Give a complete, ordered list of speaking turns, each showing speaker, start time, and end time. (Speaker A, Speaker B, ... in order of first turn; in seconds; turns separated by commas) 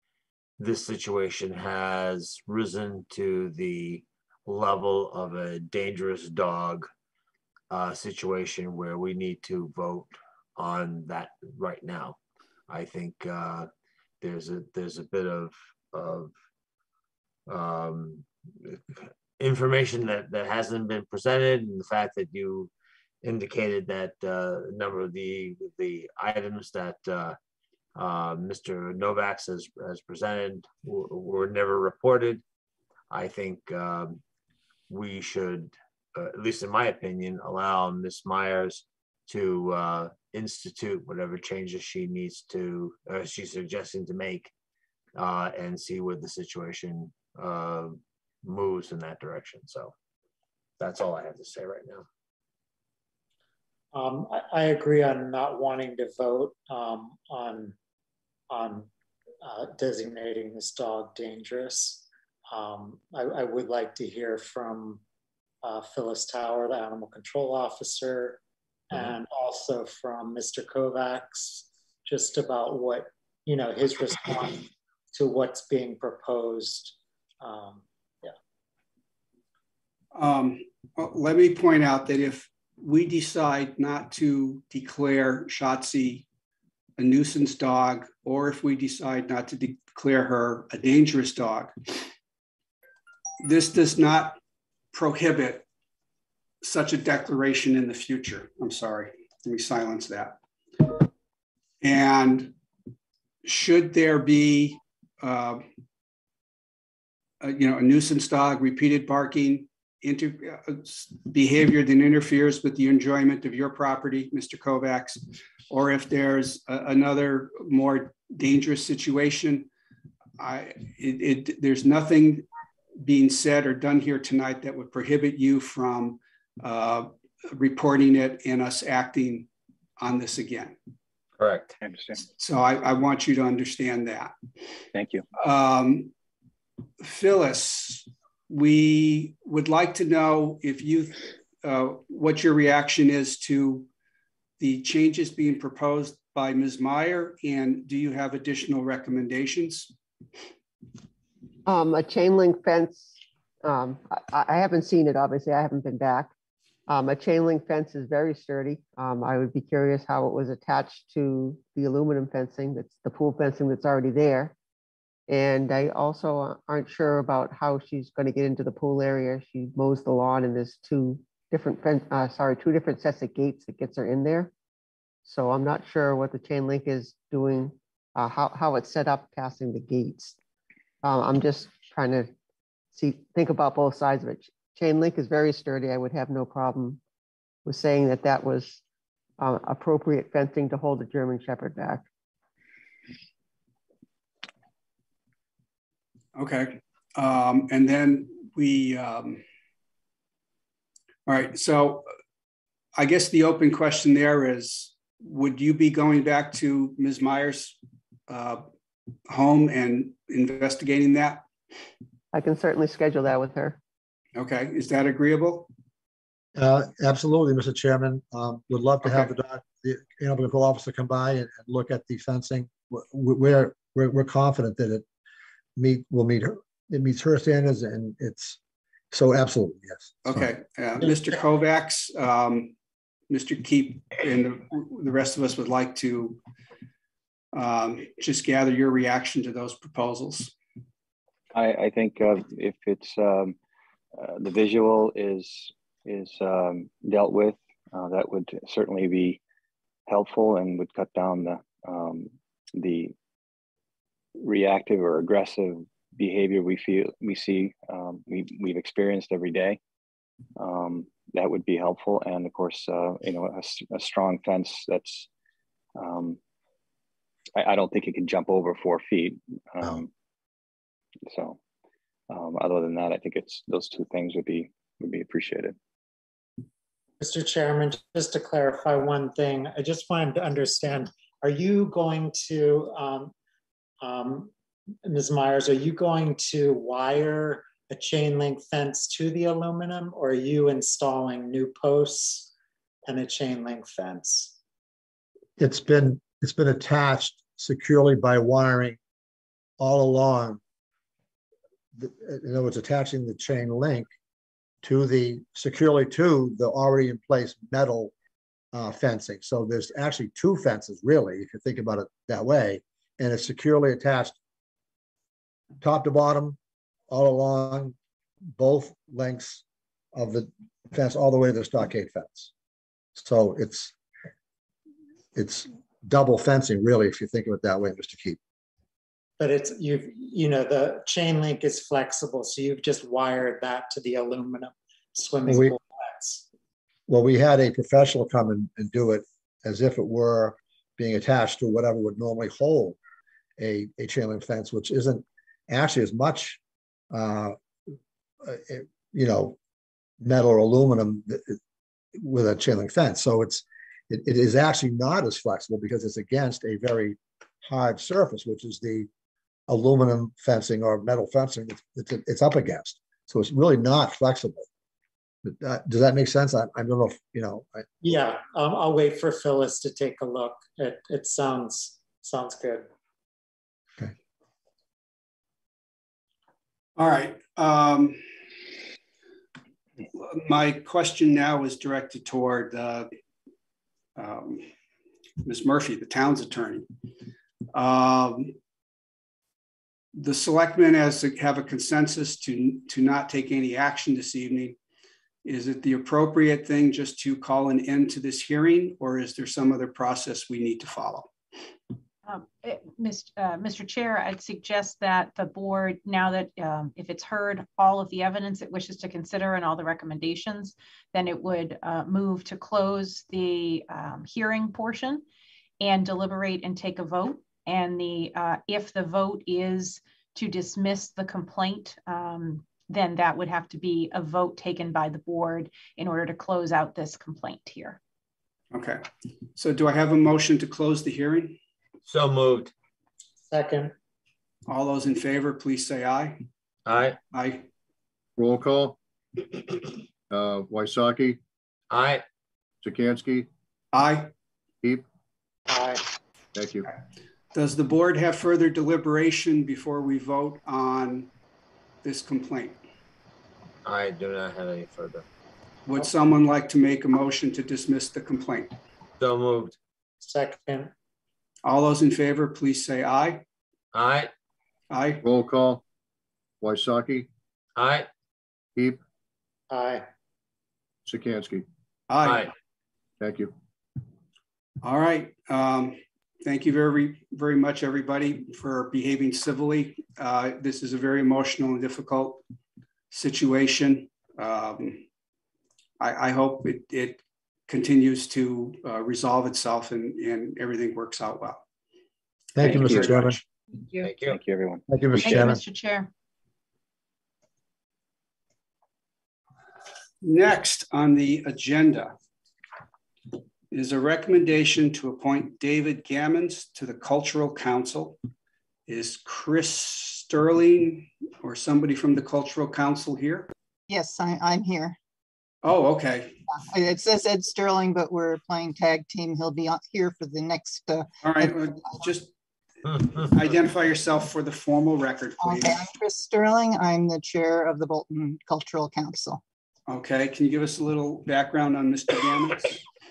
Speaker A: 0.6-6.9, Speaker A: 7.7-12.2, Speaker A: 12.7-13.7, Speaker A: 14.2-16.3, Speaker A: 17.5-22.7, Speaker A: 23.2-27.4, Speaker A: 27.9-32.4, Speaker A: 33.1-34.2, Speaker A: 34.9-44.5, Speaker A: 45.1-49.9, Speaker A: 50.8-52.0, Speaker B: 53.9-57.7, Speaker B: 58.5-58.9, Speaker B: 59.4-65.0, Speaker B: 65.6-78.3, Speaker C: 80.1-86.2, Speaker C: 87.0-91.7, Speaker C: 93.4-94.4, Speaker C: 94.9-95.6, Speaker C: 96.6-100.4, Speaker C: 101.8-102.5, Speaker C: 103.4-105.6, Speaker C: 107.4-119.7, Speaker C: 120.4-122.5, Speaker C: 123.0-130.8, Speaker A: 131.4-131.7, Speaker D: 131.8-132.2, Speaker C: 132.2-134.3, Speaker D: 134.9-135.2, Speaker C: 135.4-136.1, Speaker C: 137.0-143.9, Speaker C: 144.6-149.9, Speaker E: 151.7-156.3, Speaker E: 156.9-164.5, Speaker E: 165.3-174.5, Speaker E: 175.2-180.3, Speaker E: 181.0-182.3, Speaker E: 182.9-187.0, Speaker E: 187.6-188.8, Speaker E: 189.4-192.1, Speaker C: 196.3-199.4, Speaker C: 201.2-202.1, Speaker C: 202.9-208.6, Speaker C: 209.3-211.4, Speaker E: 212.3-213.8, Speaker C: 214.3-215.7, Speaker F: 216.6-225.0, Speaker F: 225.8-228.6, Speaker F: 229.1-230.4, Speaker C: 230.2-232.7, Speaker C: 233.3-236.4, Speaker C: 237.5-240.5, Speaker D: 241.5-243.6, Speaker D: 244.2-249.4, Speaker D: 250.1-253.1, Speaker D: 254.4-259.8, Speaker D: 260.6-265.3, Speaker D: 265.9-266.4, Speaker D: 267.6-270.1, Speaker D: 271.3-271.6, Speaker D: 272.3-275.8, Speaker B: 277.2-283.3, Speaker B: 284.0-284.5, Speaker B: 285.0-292.5, Speaker B: 293.1-294.6, Speaker F: 295.6-299.0, Speaker F: 299.8-300.6, Speaker F: 301.9-304.1, Speaker F: 304.8-308.1, Speaker F: 308.7-314.4, Speaker F: 315.8-316.6, Speaker F: 317.1-317.9, Speaker F: 318.6-319.6, Speaker F: 320.1-322.5, Speaker F: 323.1-323.9, Speaker F: 325.3-328.4, Speaker B: 329.4-336.4, Speaker F: 335.5-335.8, Speaker F: 337.1-343.0, Speaker F: 343.6-346.6, Speaker F: 347.1-347.6, Speaker F: 348.4-349.6, Speaker F: 350.2-351.6, Speaker F: 352.1-359.1, Speaker F: 359.7-364.7, Speaker F: 365.4-368.0, Speaker B: 368.0-372.9, Speaker C: 377.0-378.2, Speaker C: 380.1-383.1, Speaker C: 384.1-384.6, Speaker C: 385.4-386.9, Speaker C: 387.7-388.5, Speaker C: 390.1-394.8, Speaker C: 395.4-401.3, Speaker G: 402.2-415.2, Speaker G: 415.8-428.0, Speaker C: 428.7-429.0, Speaker C: 429.6-431.6, Speaker A: 432.1-432.7, Speaker B: 433.5-433.9, Speaker C: 434.7-436.4, Speaker A: 436.9-437.2, Speaker C: 437.3-437.6, Speaker H: 438.4-439.0, Speaker H: 440.3-441.4, Speaker A: 441.9-442.2, Speaker H: 442.8-443.5, Speaker C: 443.9-444.3, Speaker B: 445.7-446.0, Speaker H: 446.5-446.9, Speaker C: 447.5-451.3, Speaker C: 452.0-452.8, Speaker A: 453.8-455.2, Speaker C: 455.9-458.7, Speaker A: 459.2-459.8, Speaker B: 460.2-460.9, Speaker C: 461.6-463.4, Speaker A: 463.9-464.3, Speaker C: 464.9-465.2, Speaker H: 465.2-465.8, Speaker H: 466.6-467.3, Speaker A: 467.8-468.1, Speaker B: 469.7-470.0, Speaker H: 471.1-471.6, Speaker C: 472.1-472.5, Speaker A: 472.2-472.5, Speaker H: 473.2-473.5, Speaker C: 474.8-482.4, Speaker C: 483.1-485.0, Speaker C: 486.0-491.6, Speaker F: 492.6-493.4, Speaker C: 492.6-493.4, Speaker D: 492.7-493.1, Speaker A: 494.0-494.4, Speaker D: 494.2-495.5, Speaker F: 494.9-495.6, Speaker G: 495.2-496.1, Speaker C: 500.2-502.1, Speaker C: 503.7-508.2, Speaker C: 508.9-513.5, Speaker I: 513.9-515.0, Speaker C: 515.6-516.4, Speaker I: 516.5-522.0, Speaker C: 521.2-522.3, Speaker C: 522.8-525.8, Speaker A: 522.9-523.2, Speaker I: 525.4-529.4, Speaker C: 529.9-532.8